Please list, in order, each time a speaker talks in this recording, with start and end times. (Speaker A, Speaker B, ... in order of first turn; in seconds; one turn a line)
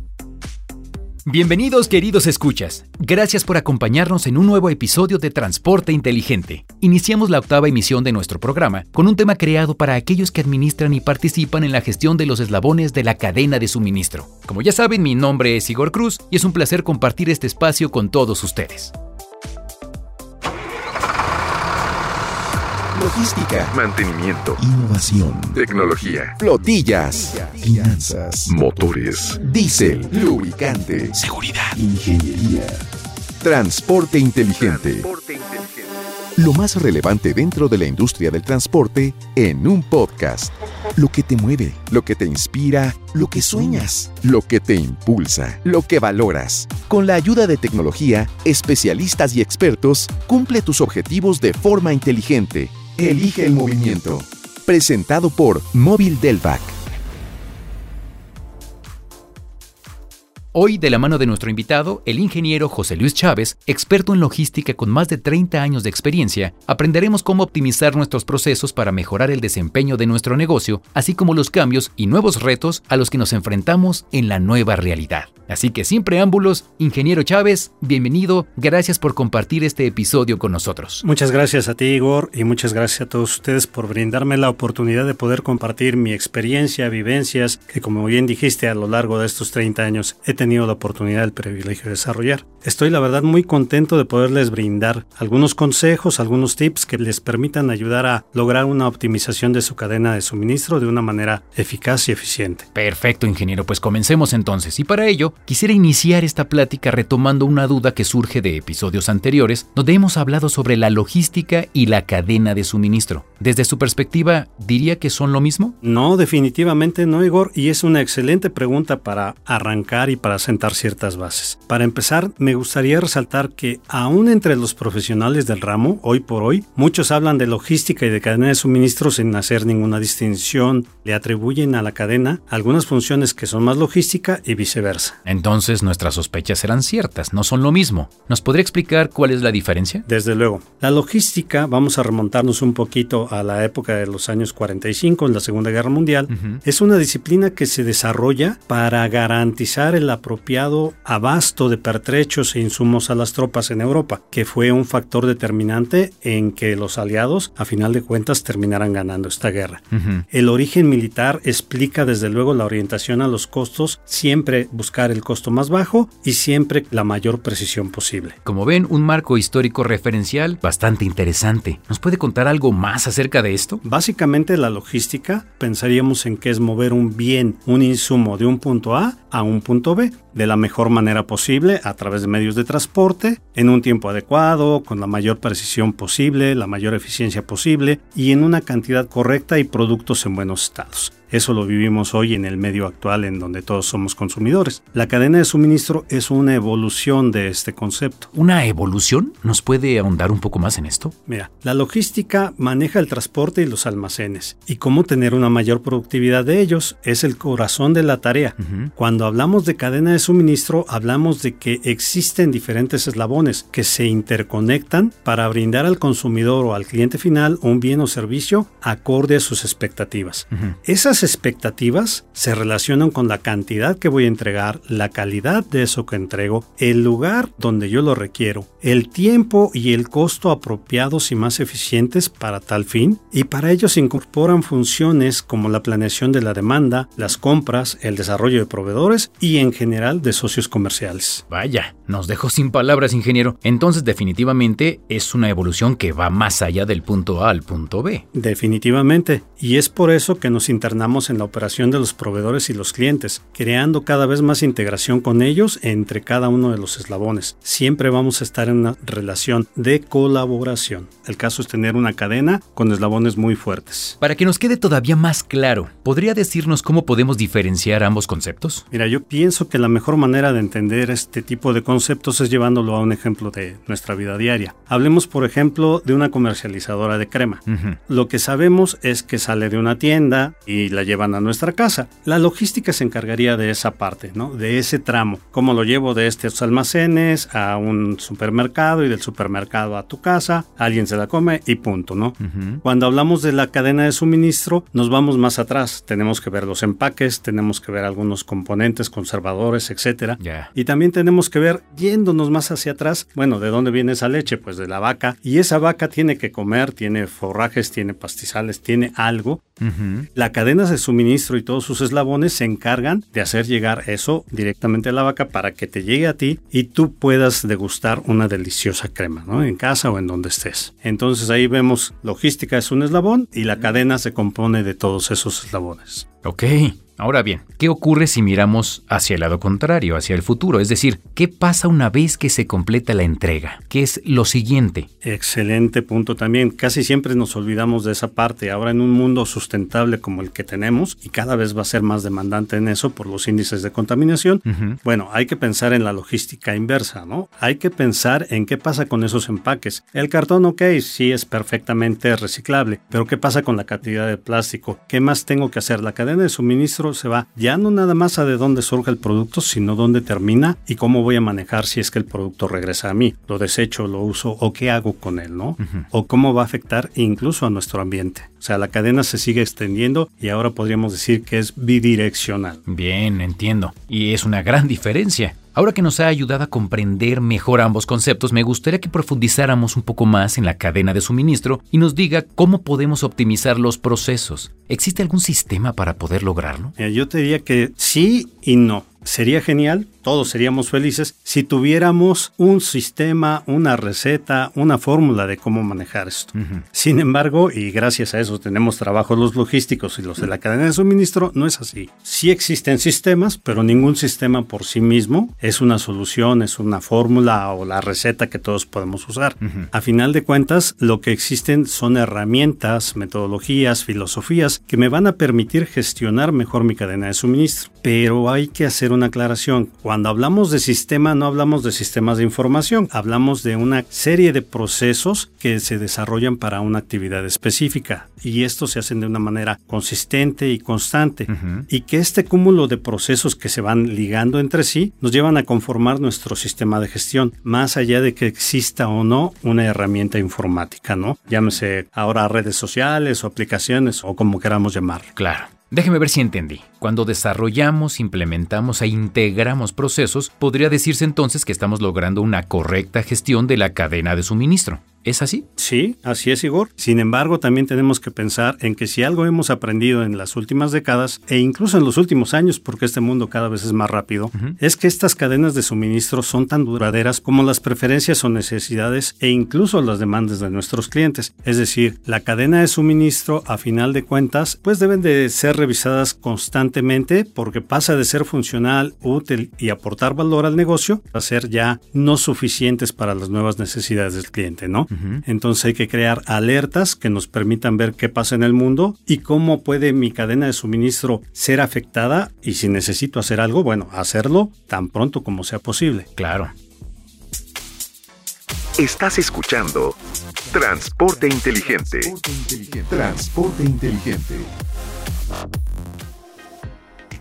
Speaker A: 1.2-18.9
Speaker B: 22.9-23.8
Speaker C: 23.7-24.6
Speaker B: 24.6-25.7
Speaker C: 25.5-26.3
Speaker B: 26.3-32.8
Speaker C: 28.5-29.4
Speaker A: 31.2-31.7
Speaker B: 33.4-35.1
Speaker C: 34.7-35.9
Speaker B: 36.4-56.7
Speaker A: 60.5-81.0
Speaker D: 81.0-102.7
Speaker A: 102.7-115.7
Speaker D: 115.8-135.2
Speaker A: 135.2-140.0
Speaker D: 140.1-168.3
Speaker A: 146.3-146.6
Speaker A: 159.9-160.2
Speaker A: 168.4-173.8
Speaker D: 173.8-198.3
Speaker A: 198.3-201.1
Speaker D: 201.2-241.4
Speaker A: 208.6-208.9
Speaker A: 241.5-248.2
Speaker D: 248.3-264.2
Speaker A: 264.2-268.8
Speaker D: 268.9-309.6
Speaker A: 277.7-278.0
Speaker A: 292.4-292.8
Speaker A: 300.4-300.7
Speaker A: 309.8-310.3
Speaker D: 310.3-326.3
Speaker A: 326.4-335.1
Speaker D: 335.2-372.8
Speaker A: 344.7-345.0
Speaker A: 372.9-386.9
Speaker D: 387.0-445.3
Speaker A: 396.6-396.8
Speaker A: 409.6-409.9
Speaker A: 431.5-431.9
Speaker A: 445.4-455.6
Speaker D: 455.8-496.3
Speaker A: 485.1-485.4
Speaker A: 496.4-496.7
Speaker B: 499.0-500.1
Speaker B: 500.7-504.7